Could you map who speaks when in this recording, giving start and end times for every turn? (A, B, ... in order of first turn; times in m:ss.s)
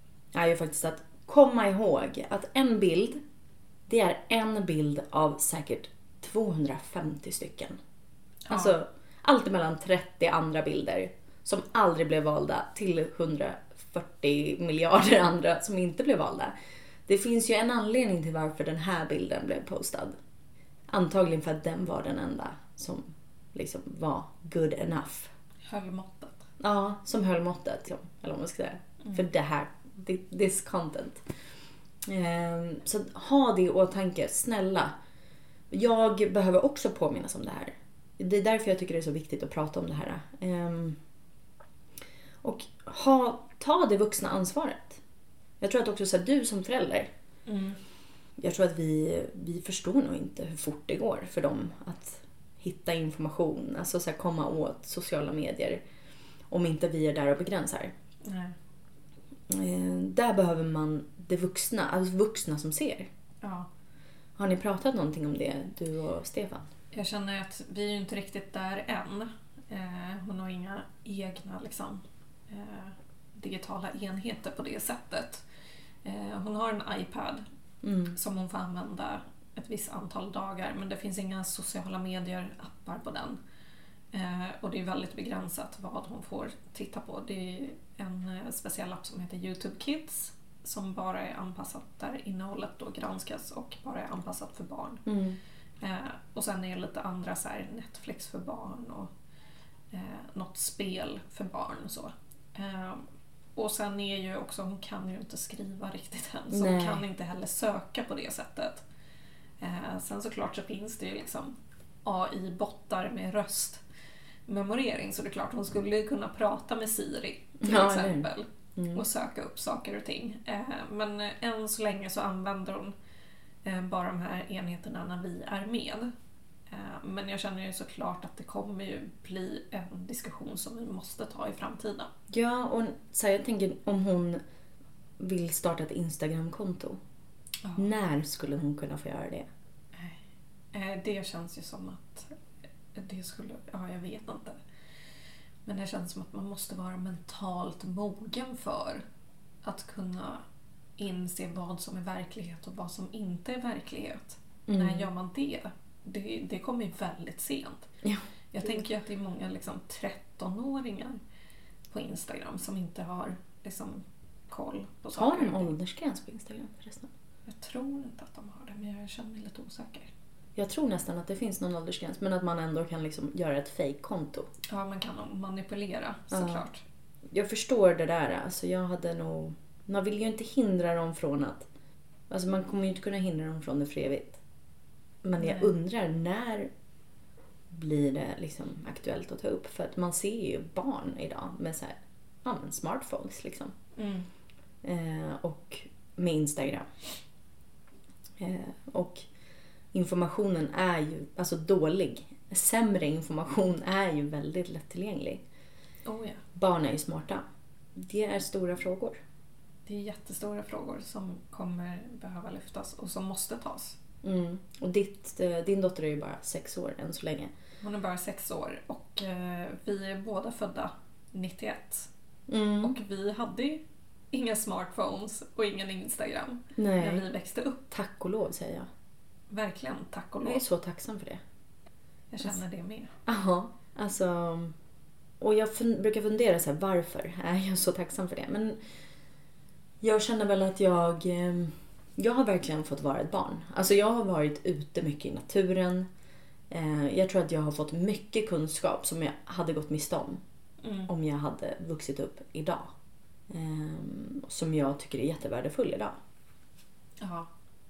0:00.3-0:03.2 A
0:03.9-0:07.8 A
0:08.5-0:08.8 B
0:08.5-0:16.5 A
0:17.1-0:20.2 A
0:20.9-0:25.3 A
0:25.6-0:26.5 B
0:26.6-0:31.2 A
0:32.0-0:34.9 A
0:35.7-0:41.0 A
0:42.4-0:45.0 A
0:45.6-0:47.1 A
0:47.5-0:47.8 B
0:48.4-0:55.8 A
0:56.5-0:57.9 A
0:58.2-0:58.6 B
0:59.5-1:03.1 A
1:03.4-1:03.7 B
1:04.4-1:06.7 A
1:06.9-1:15.4 B
1:16.0-1:17.4 B
1:17.8-1:18.2 A
1:18.1-1:23.4 B
1:24.1-1:35.1 B
1:35.1-1:35.4 A
1:35.8-1:39.1 B
1:39.9-1:48.8 B
1:46.5-1:47.0 A
1:49.6-1:53.8 B
1:54.5-2:03.0 B
1:57.6-1:59.0 A
2:03.6-2:06.1 B
2:06.7-2:12.1 B
2:12.3-2:14.4 A
2:15.2-2:17.0 A
2:17.6-2:17.9 B
2:17.8-2:19.5 A
2:19.9-2:20.2 B
2:20.7-2:22.4 B
2:23.0-2:24.6 B
2:25.7-2:29.0 B
2:29.6-2:30.4 B
2:31.0-2:37.9 B
2:34.7-2:35.1 A
2:38.0-2:38.8 A
2:38.5-2:41.2 B
2:41.9-2:45.7 B
2:45.2-2:47.1 A
2:47.5-2:50.1 B
2:50.6-2:54.5 A
2:54.7-2:56.8 B
2:56.3-2:56.7 A
2:57.3-3:01.7 A
3:02.3-3:04.4 A
3:05.2-3:06.7 A
3:05.4-3:05.7 B
3:07.7-3:13.7 A
3:14.0-3:14.3 B
3:14.8-3:16.9 A
3:18.4-3:19.2 A
3:19.9-3:25.4 A
3:26.0-3:26.4 B
3:26.6-3:27.4 A
3:28.0-3:29.2 A
3:29.9-3:34.0 B
3:34.2-3:37.5 A
3:37.8-3:42.1 B
3:42.5-3:43.0 A
3:42.8-3:47.9 B
3:46.8-3:47.3 A
3:47.9-3:48.9 A
3:49.5-3:50.6 B
3:50.4-3:51.4 A
3:52.3-3:53.1 B
3:53.3-3:54.8 A
3:55.4-3:58.8 A
4:00.0-4:06.1 A
4:06.7-4:10.4 A
4:10.8-4:11.1 B
4:11.1-4:12.9 A
4:13.5-4:16.2 A
4:17.2-4:17.5 B